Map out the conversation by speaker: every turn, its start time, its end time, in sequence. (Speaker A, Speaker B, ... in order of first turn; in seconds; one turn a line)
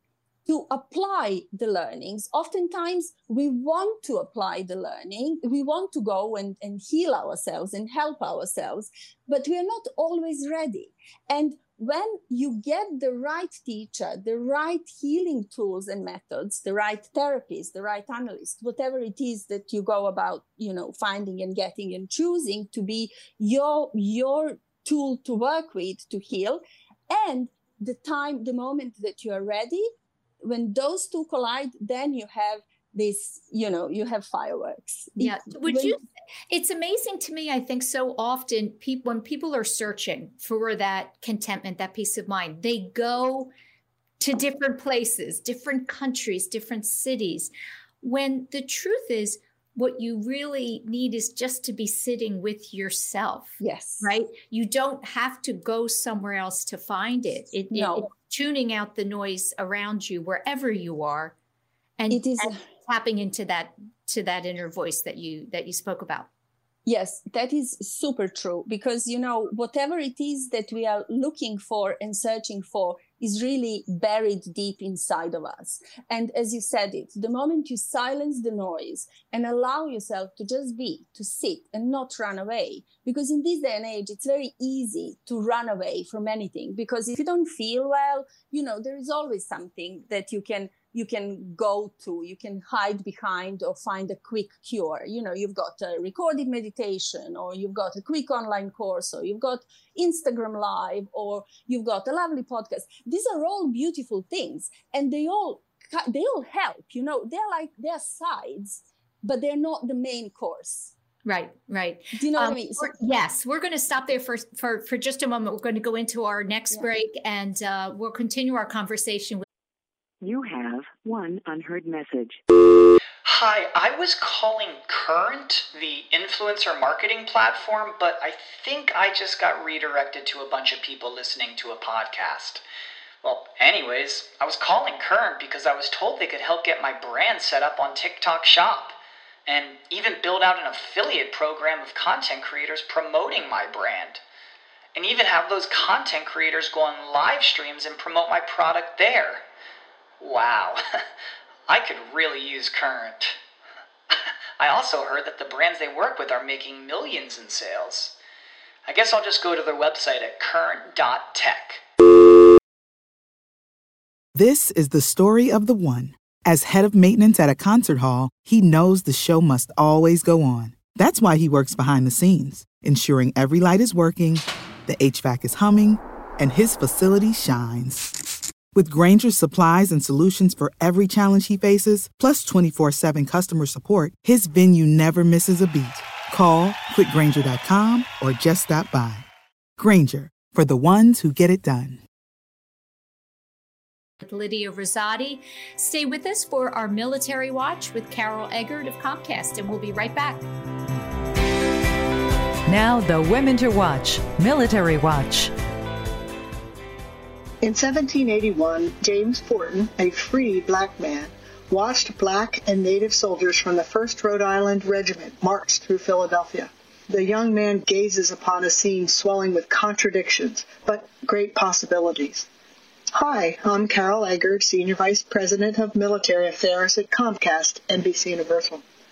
Speaker A: 0.5-29.9
Speaker A: 30.4-36.0
Speaker B: 35.2-43.5
Speaker B: 44.2-61.3
Speaker A: 53.6-54.1
Speaker A: 57.7-58.1
Speaker B: 62.0-66.3
Speaker A: 62.1-62.6
Speaker A: 66.8-110.9
Speaker B: 111.2-119.4
Speaker A: 112.1-113.0
Speaker C: 120.2-122.4
Speaker D: 123.2-132.6
Speaker D: 133.2-144.2
Speaker D: 144.9-149.4
Speaker D: 150.2-150.8
Speaker D: 151.7-153.3
Speaker D: 154.6-158.1
Speaker D: 158.8-161.8
Speaker E: 164.3-178.1
Speaker E: 178.7-189.2
Speaker E: 189.8-192.0
Speaker B: 194.2-200.4
Speaker F: 202.7-205.5
Speaker G: 207.6-222.5
Speaker G: 223.1-228.8